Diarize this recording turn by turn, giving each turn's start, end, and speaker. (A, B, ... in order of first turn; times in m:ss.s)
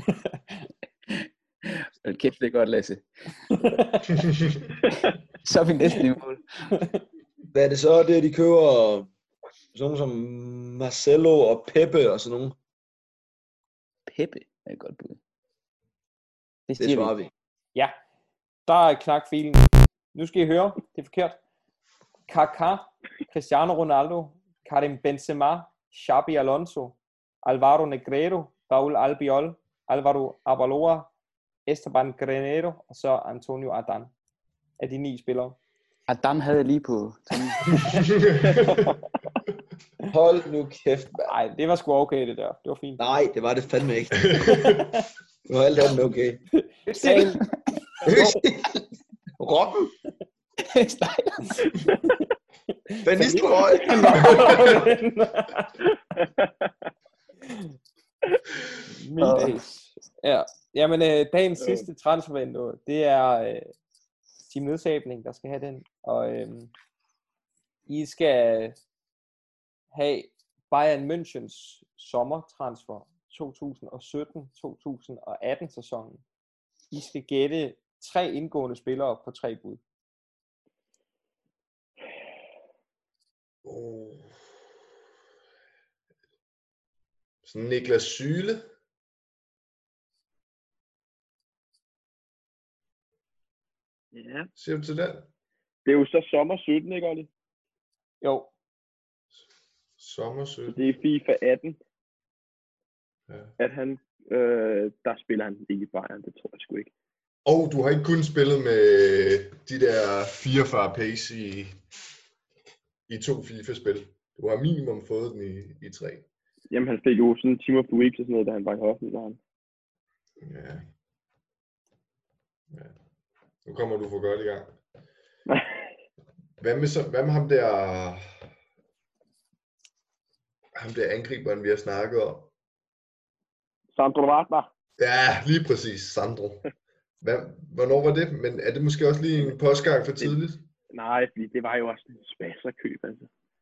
0:01.1-0:03.1 A
0:03.5-0:04.1 B
0:05.4-0:06.4 A
0:06.8-0:07.0 B
0:07.5-0:09.1 C
0:09.7-0:12.6 C
0:14.1-0:15.2 A
0:16.7-0:17.2 A
0:16.8-0:17.3 C
0:18.7-0:21.4 B
0:22.3-0:31.1 B
0:31.7-0:34.1 B
0:34.8-0:35.6 B
0:36.1-0:38.1 A
0:37.8-0:38.9 D
0:40.1-0:41.3 C
0:41.3-0:43.0 B
0:43.0-0:44.8 C
0:44.3-0:44.9 D
0:45.5-0:46.4 C
0:46.9-0:47.4 B
0:46.9-0:47.5 A
0:48.0-0:48.3 B
0:48.0-0:48.8 C
0:49.4-0:49.9 C
0:50.6-0:51.7 A
0:52.9-0:55.8 B
0:53.0-0:54.7 C
0:56.2-0:56.7 E
0:58.9-1:03.7 B
1:01.6-1:01.9 E
1:04.5-1:06.7 B
1:07.9-1:08.8 B
1:09.9-1:16.2 B
1:16.9-1:19.8 B
1:23.6-1:24.3 D
1:27.4-1:28.6 D
1:34.1-1:34.5 E
1:34.6-1:35.3 D
1:35.8-1:37.3 E
1:38.2-1:38.5 B
1:40.0-1:40.8 D
1:40.7-1:41.8 E
1:43.6-1:46.9 E
1:47.5-1:51.8 D
1:53.1-1:56.3 D
1:56.7-1:59.4 E
2:00.4-2:00.8 D
2:02.7-2:03.0 D
2:03.6-2:04.8 D
2:05.5-2:05.8 E
2:06.6-2:08.3 D
2:10.8-2:12.5 D
2:13.9-2:14.7 E
2:15.0-2:16.6 D
2:17.2-2:20.7 D
2:20.9-2:23.3 E